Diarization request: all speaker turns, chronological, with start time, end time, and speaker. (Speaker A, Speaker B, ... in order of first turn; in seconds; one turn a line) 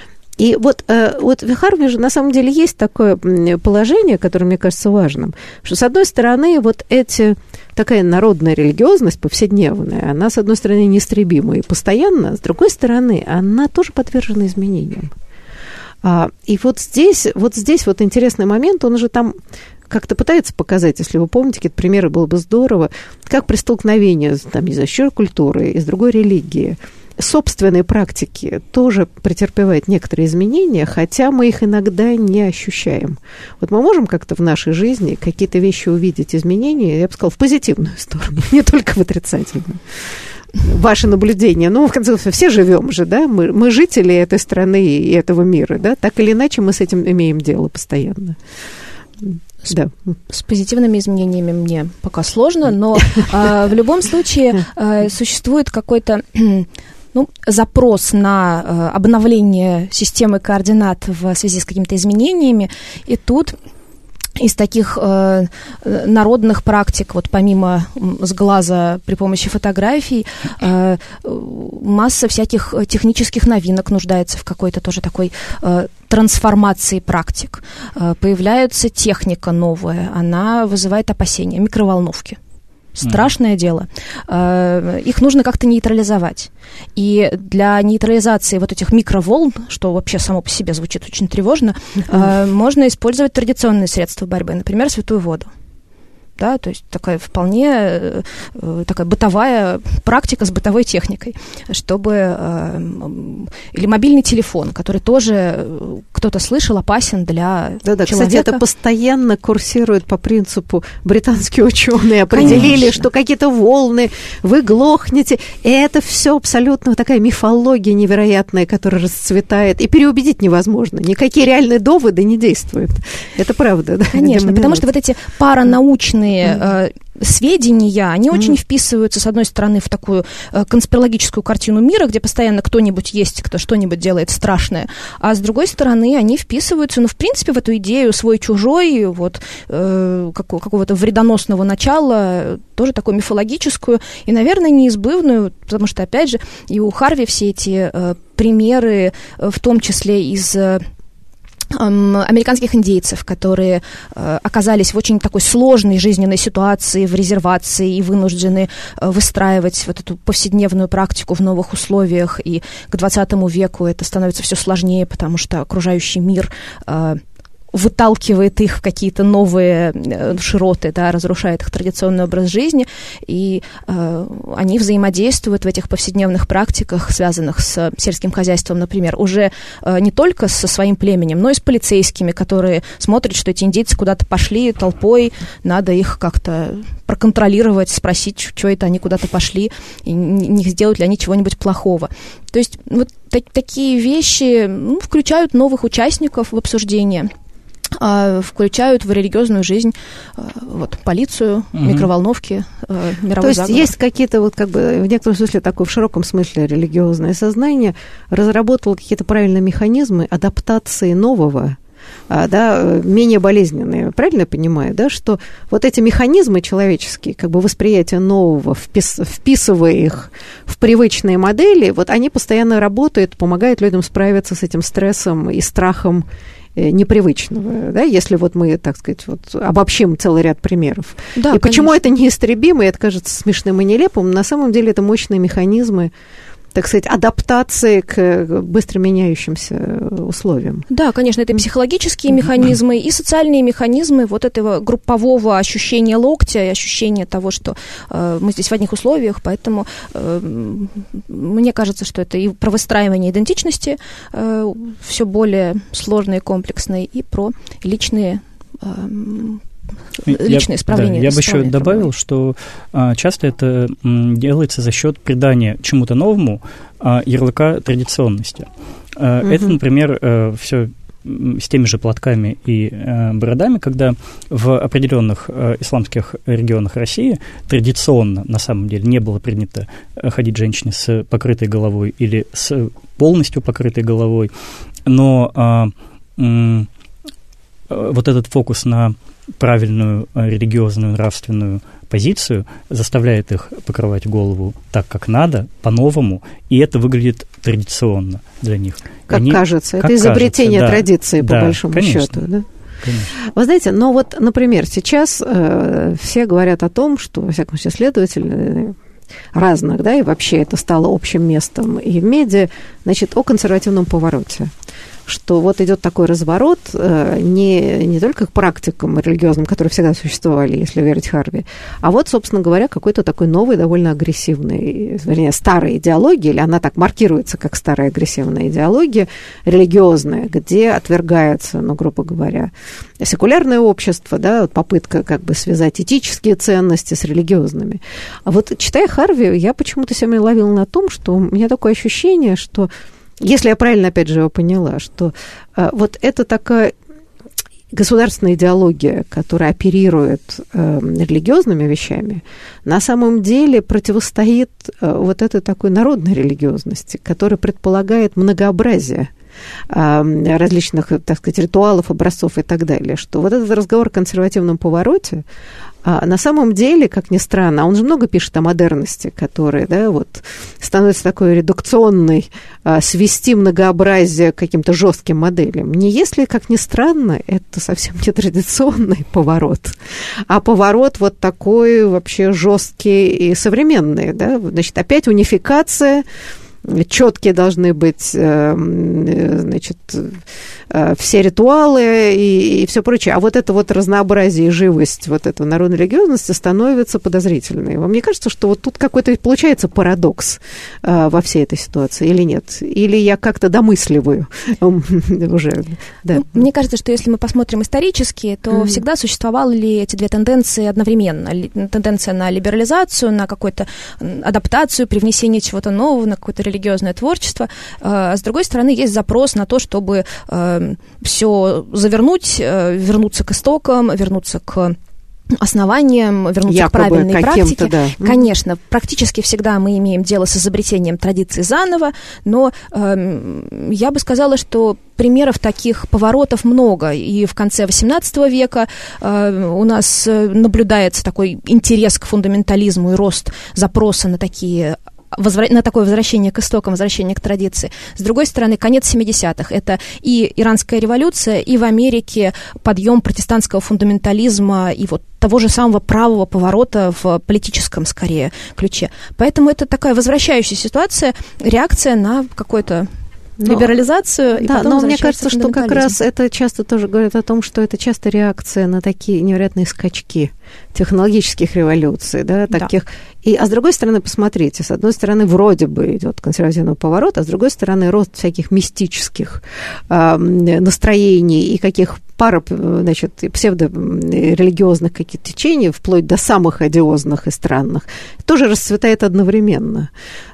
Speaker A: 0.4-15.1
Speaker A: 16.0-19.3
Speaker A: 19.9-40.0
Speaker A: 40.5-48.4
Speaker A: 49.2-49.9
Speaker B: 50.3-63.5
Speaker B: 64.3-82.4
Speaker B: 82.9-95.5
Speaker B: 96.4-108.6
Speaker A: 107.8-124.8
Speaker B: 112.3-113.0
Speaker B: 124.1-150.8
Speaker B: 151.7-167.2
Speaker B: 167.7-197.3
Speaker B: 197.9-203.9
Speaker C: 201.7-202.1
Speaker A: 203.4-211.8
Speaker A: 212.3-226.2
Speaker A: 226.8-236.1
Speaker B: 231.3-231.9
Speaker A: 236.7-240.8
Speaker B: 240.9-259.6
Speaker B: 260.2-262.1
Speaker C: 260.3-284.5
Speaker C: 285.1-286.9
Speaker C: 287.9-302.4
Speaker A: 299.3-302.6
Speaker C: 303.0-303.3
Speaker A: 303.4-309.0
Speaker A: 309.5-314.7
Speaker A: 315.3-346.9
Speaker A: 347.9-359.3
Speaker A: 359.9-365.4
Speaker A: 366.0-380.0
Speaker A: 380.5-386.2
Speaker A: 386.8-406.6
Speaker B: 406.3-424.9
Speaker A: 408.7-409.0
Speaker B: 425.6-463.1
Speaker A: 426.7-428.4
Speaker A: 463.6-463.9
Speaker B: 463.6-466.1
Speaker A: 464.6-490.1